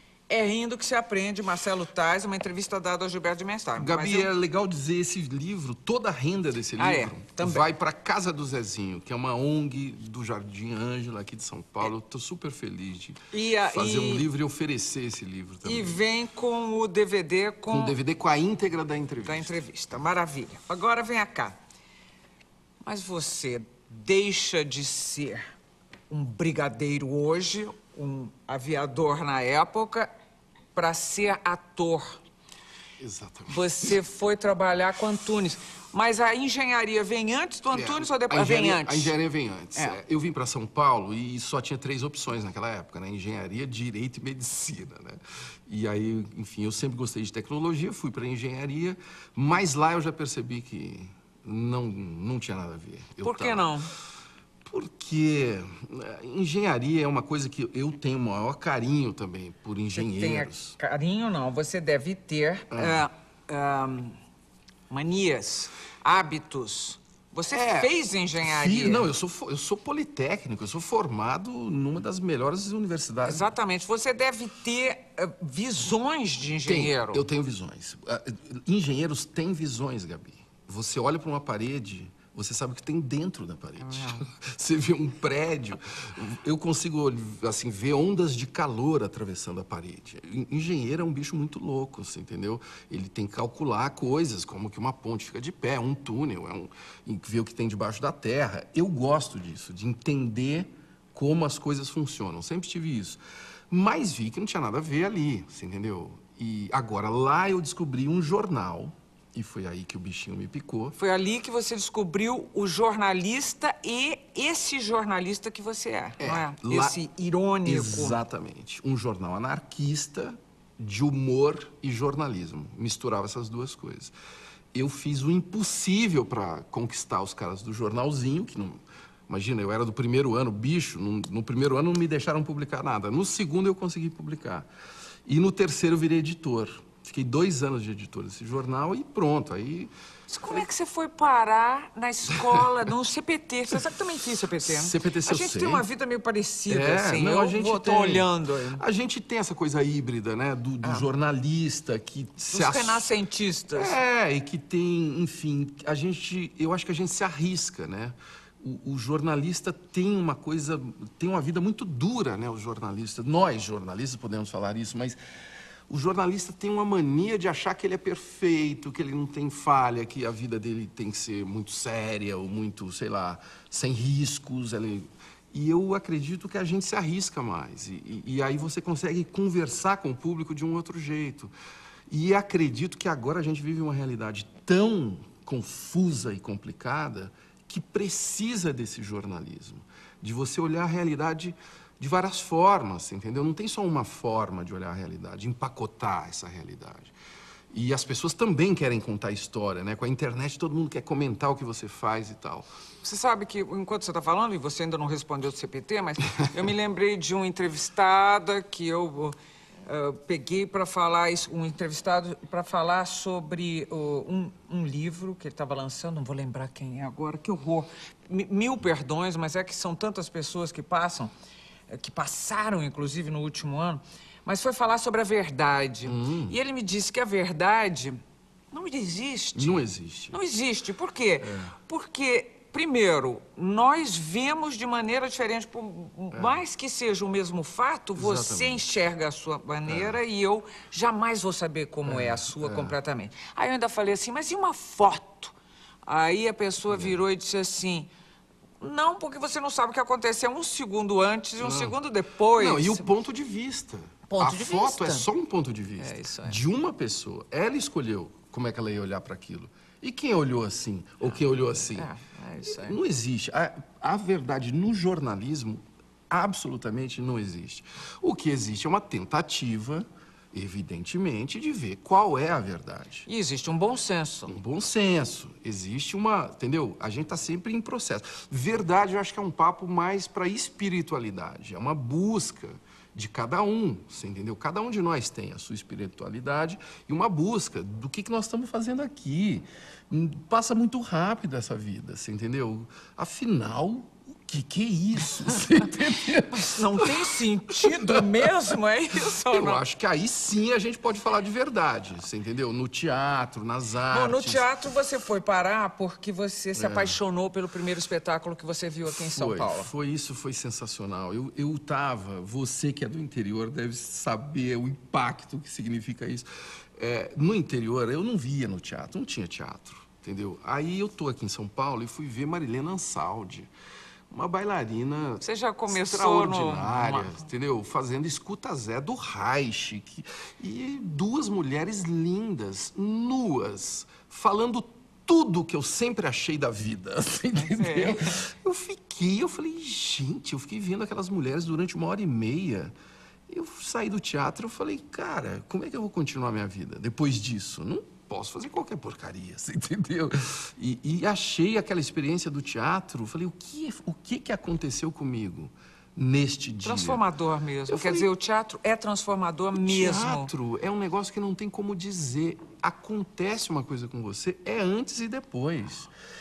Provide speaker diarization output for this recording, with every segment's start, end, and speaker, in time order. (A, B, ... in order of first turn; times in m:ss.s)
0:00.3-0:04.3 A
0:03.8-0:16.0 B
0:06.8-0:07.6 A
0:13.3-0:14.3 A
0:15.6-0:18.0 A
0:17.7-0:19.6 B
0:19.2-0:21.6 A
0:22.8-0:25.5 A
0:26.1-0:30.1 A
0:30.7-0:32.2 A
0:33.0-0:33.6 B
0:33.5-0:39.1 A
0:37.7-0:53.7 B
0:53.2-0:53.9 A
0:54.6-1:00.8 B
0:59.9-1:04.2 A
1:02.7-1:03.1 B
1:04.9-1:09.1 A
1:07.5-1:07.9 B
1:08.4-1:13.5 B
1:13.2-1:17.3 A
1:16.6-1:51.0 B
1:23.8-1:24.3 A
1:50.9-1:58.2 A
1:56.2-1:57.0 B
1:57.6-2:04.1 B
2:04.7-2:14.7 B
2:15.2-2:19.9 B
2:20.3-2:28.8 A
2:24.6-2:25.8 B
2:26.7-2:33.1 B
2:32.5-2:34.0 A
2:33.7-2:45.2 B
2:45.9-3:01.5 B
3:02.1-3:17.1 B
3:17.7-3:22.7 B
3:23.0-3:41.3 A
3:41.9-3:48.2 A
3:46.0-3:46.6 B
3:48.7-4:08.1 A
3:49.5-3:50.4 B
3:51.4-3:51.7 B
3:56.3-3:56.6 B
3:58.2-3:58.8 B
3:59.9-4:00.2 B
4:02.1-4:03.0 B
4:06.9-4:07.2 B
4:08.8-4:13.1 A
4:11.6-4:12.0 B
4:12.6-4:22.1 B
4:14.3-4:15.3 A
4:16.0-4:16.6 A
4:21.2-4:23.0 A
4:22.7-4:33.3 B
4:33.2-4:34.6 A
4:34.5-4:57.2 B
4:56.5-4:59.8 A
4:57.8-4:58.5 B
4:59.3-5:04.6 B
5:04.1-5:09.9 A
5:06.8-5:07.2 B
5:09.1-5:23.7 B
5:24.3-5:42.9 B
5:25.4-5:27.4 A
5:37.5-5:38.4 A
5:43.5-5:57.2 B
5:56.8-6:00.5 A
5:57.9-5:58.3 B
5:59.7-6:06.1 B